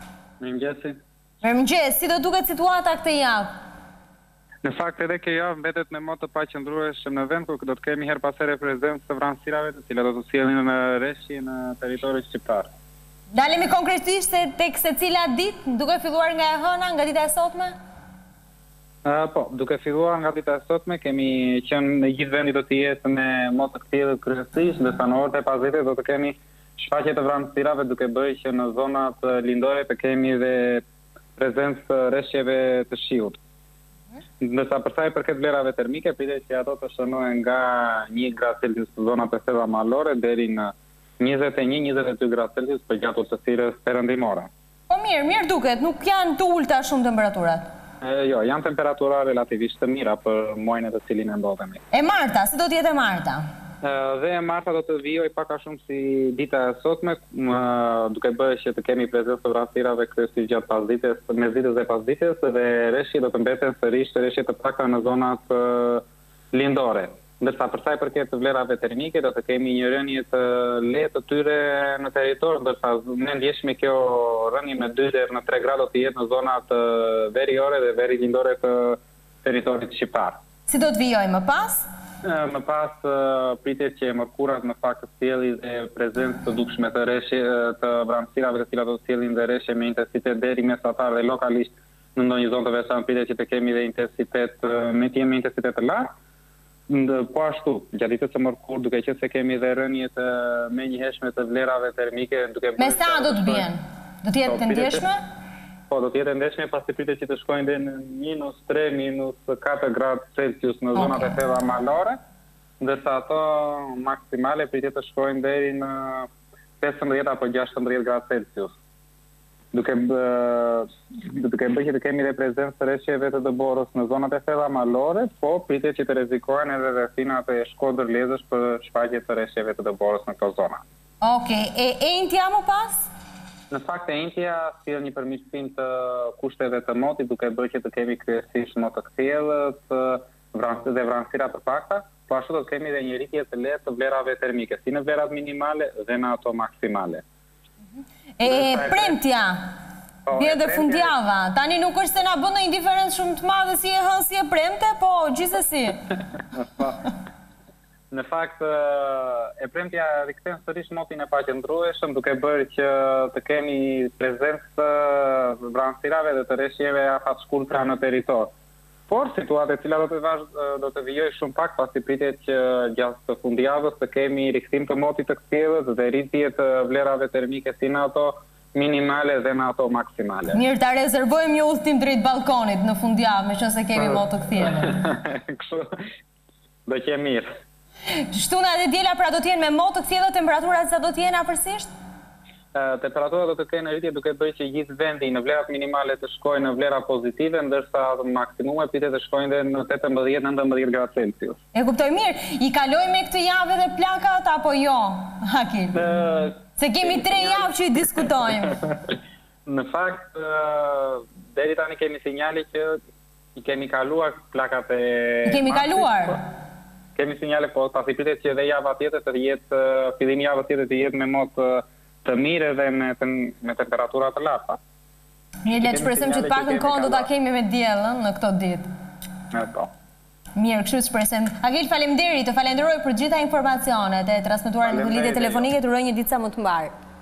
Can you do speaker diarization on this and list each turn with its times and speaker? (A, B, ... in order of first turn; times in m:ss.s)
0:00.4-0:01.0 A
0:01.4-0:03.5 B
0:04.6-0:12.7 A
0:13.3-0:17.8 B
0:19.0-0:30.8 A
0:31.4-0:33.4 A
0:34.4-0:44.5 A
0:44.9-0:47.6 B
0:48.0-0:51.8 A
0:51.9-0:53.4 B
0:53.8-1:20.4 A
1:20.7-1:21.8 B
1:22.2-1:36.1 A
1:36.9-1:43.7 A
1:42.8-1:45.2 B
1:44.4-1:45.1 A
1:45.9-1:52.2 A
1:51.0-1:51.3 B
1:52.8-1:56.3 A
1:56.8-1:58.8 A
1:59.7-2:10.8 A
2:11.2-2:13.1 B
2:13.7-2:27.2 A
2:28.4-2:29.6 B
2:28.4-2:29.2 A
2:30.3-2:31.2 A
2:30.4-2:36.0 B
2:36.6-2:37.0 A
2:38.1-2:48.5 A
2:49.1-3:00.6 A
3:00.5-3:05.0 B
3:04.8-3:05.9 A
3:06.9-3:07.5 A
3:08.2-3:11.9 B
3:12.7-3:21.6 A
3:21.7-3:26.1 B
3:26.0-3:27.7 A
3:26.8-3:28.8 B
3:29.7-3:33.0 A
3:33.6-3:36.4 A
3:35.4-3:36.4 B
3:37.2-3:44.8 A
3:45.6-3:48.9 B
3:45.7-3:47.3 A
3:49.5-3:49.9 A
3:50.6-3:56.9 B
3:54.8-3:55.7 A